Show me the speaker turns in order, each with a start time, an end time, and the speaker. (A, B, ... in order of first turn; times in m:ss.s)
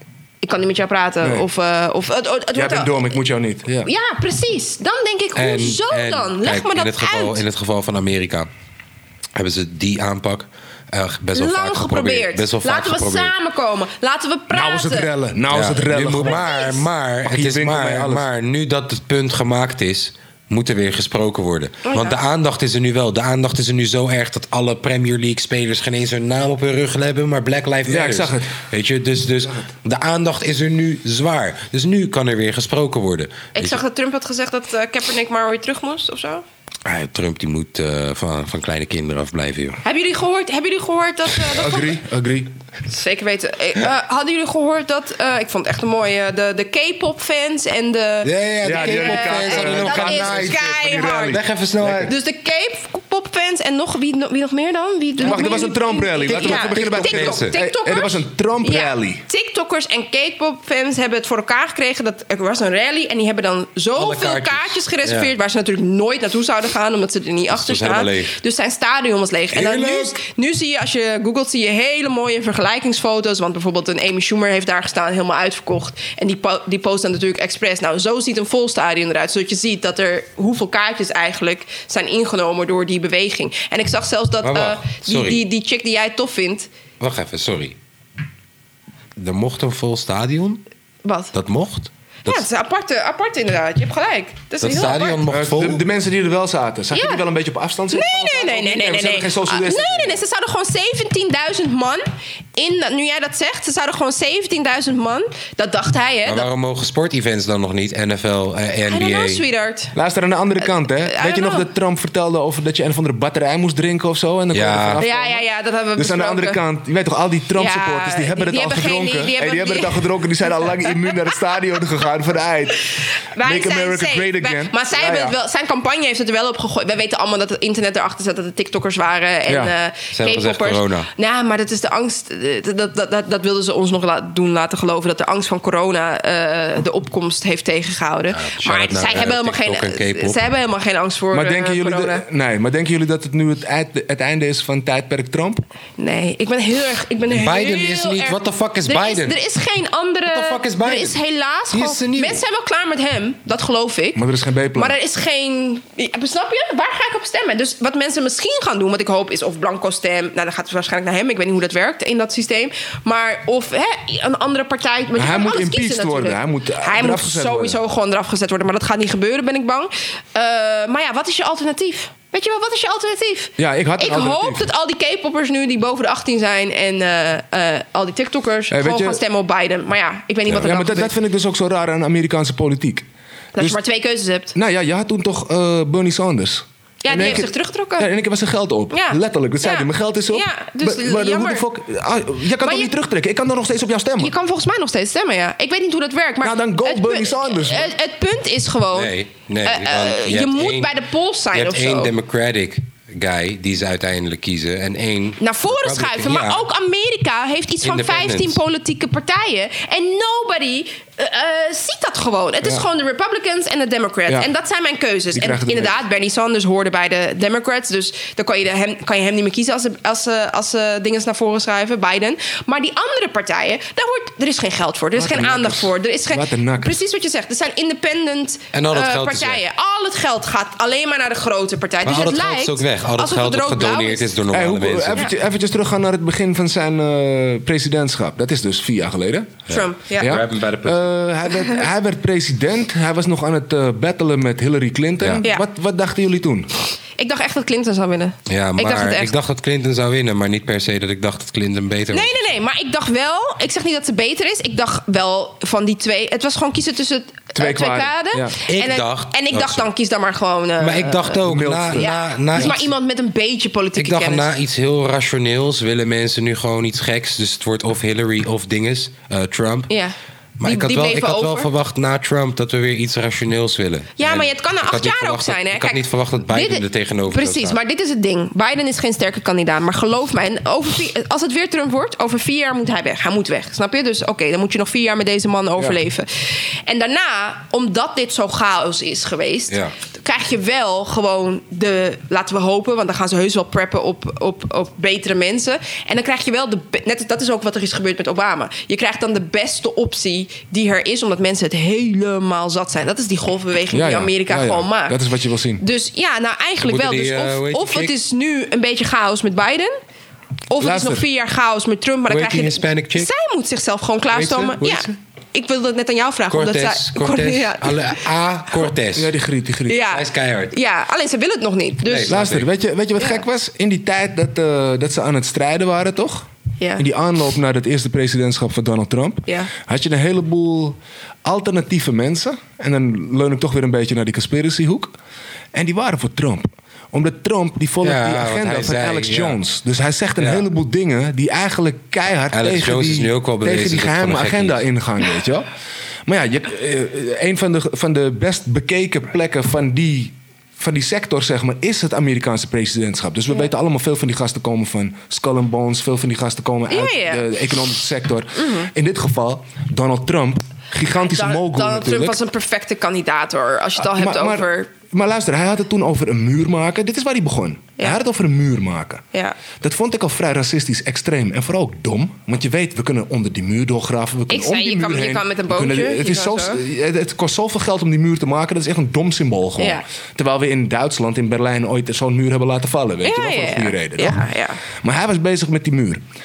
0:00.4-0:03.2 A
0:01.2-0:01.5 B
0:02.5-0:03.9 B
0:03.8-0:07.4 A
0:05.3-0:08.5 C
0:09.3-0:13.3 C
0:11.3-0:15.1 A
0:14.5-0:16.5 B
0:15.5-0:33.8 C
0:16.2-0:16.8 A
0:17.2-0:18.3 B
0:21.8-0:22.2 A
0:27.8-0:28.5 B
0:33.5-0:36.4 A
0:36.8-0:39.8 C
0:39.8-0:41.9 A
0:41.4-0:42.5 B
0:42.9-0:51.4 A
0:48.2-0:52.1 C
0:48.6-0:52.1 B
0:52.0-1:26.7 A
0:55.2-0:59.2 B
0:55.2-0:55.6 C
0:56.3-0:57.6 C
1:03.9-1:05.3 C
1:07.5-1:08.3 C
1:09.5-1:10.2 C
1:24.4-1:25.4 C
1:27.0-1:27.8 C
1:29.2-1:30.6 C
1:31.0-1:31.3 A
1:31.3-1:32.4 C
1:32.2-1:35.2 A
1:34.6-1:35.8 C
1:35.3-1:40.2 B
1:36.9-1:37.2 A
1:37.9-1:46.5 A
1:46.2-1:49.4 C
1:48.9-1:49.9 A
1:49.9-2:05.4 B
1:50.6-1:51.7 A
1:54.5-1:55.0 C
1:55.0-1:56.6 A
1:57.6-2:01.1 A
2:03.2-2:22.2 A
2:09.5-2:09.7 B
2:10.1-2:11.1 C
2:18.3-2:20.4 C
2:21.3-2:25.6 B
2:26.0-2:34.2 A
2:27.3-2:29.4 C
2:30.2-2:32.4 C
2:34.1-2:35.0 B
2:34.8-3:01.1 A
2:45.1-2:47.8 B
2:53.6-2:54.7 B
2:58.7-2:59.2 B
3:00.5-3:03.8 B
3:03.5-3:04.5 A
3:04.5-3:14.3 B
3:07.0-3:08.1 A
3:08.9-3:11.6 A
3:12.6-3:12.9 A
3:14.2-3:22.1 A
3:16.4-3:17.9 B
3:18.9-3:26.7 C
3:25.4-3:54.3 A
3:27.8-3:28.6 C
3:35.3-3:36.0 B
3:45.1-3:47.0 B
3:48.7-3:49.6 C
3:52.0-3:55.3 C
3:54.5-3:59.6 B
3:59.7-4:01.2 C
3:59.7-4:00.3 A
4:00.1-4:06.7 B
4:07.2-4:09.3 A
4:08.5-4:12.4 C
4:12.1-4:21.4 A
4:17.5-4:18.6 B
4:18.7-4:19.9 C
4:20.8-4:22.9 C
4:21.4-4:22.7 B
4:21.9-4:24.5 A
4:24.0-4:29.9 C
4:29.9-4:31.7 A
4:30.6-4:37.8 C
4:34.2-5:05.2 A
5:03.9-5:05.8 B
5:05.8-5:10.0 A
5:06.8-5:08.1 C
5:10.7-5:18.2 A
5:10.8-5:11.3 B
5:12.3-5:13.3 C
5:14.3-5:14.8 C
5:14.8-5:15.1 B
5:16.5-5:19.3 C
5:19.1-5:20.1 B
5:19.9-5:22.3 A
5:20.0-5:20.7 C
5:22.0-5:22.7 C
5:22.3-5:35.2 B
5:23.2-5:23.4 A
5:26.8-5:27.0 A
5:35.7-5:45.7 B
5:38.0-5:39.6 C
5:40.4-5:40.6 C
5:42.5-5:44.8 C
5:46.3-6:02.4 B
5:56.9-5:57.4 A
5:58.6-5:58.9 A
6:01.1-6:04.9 A
6:04.0-6:09.2 B
6:09.8-6:24.4 B
6:14.5-6:16.8 A
6:19.8-6:20.0 A
6:23.2-6:24.8 A
6:25.0-6:26.2 B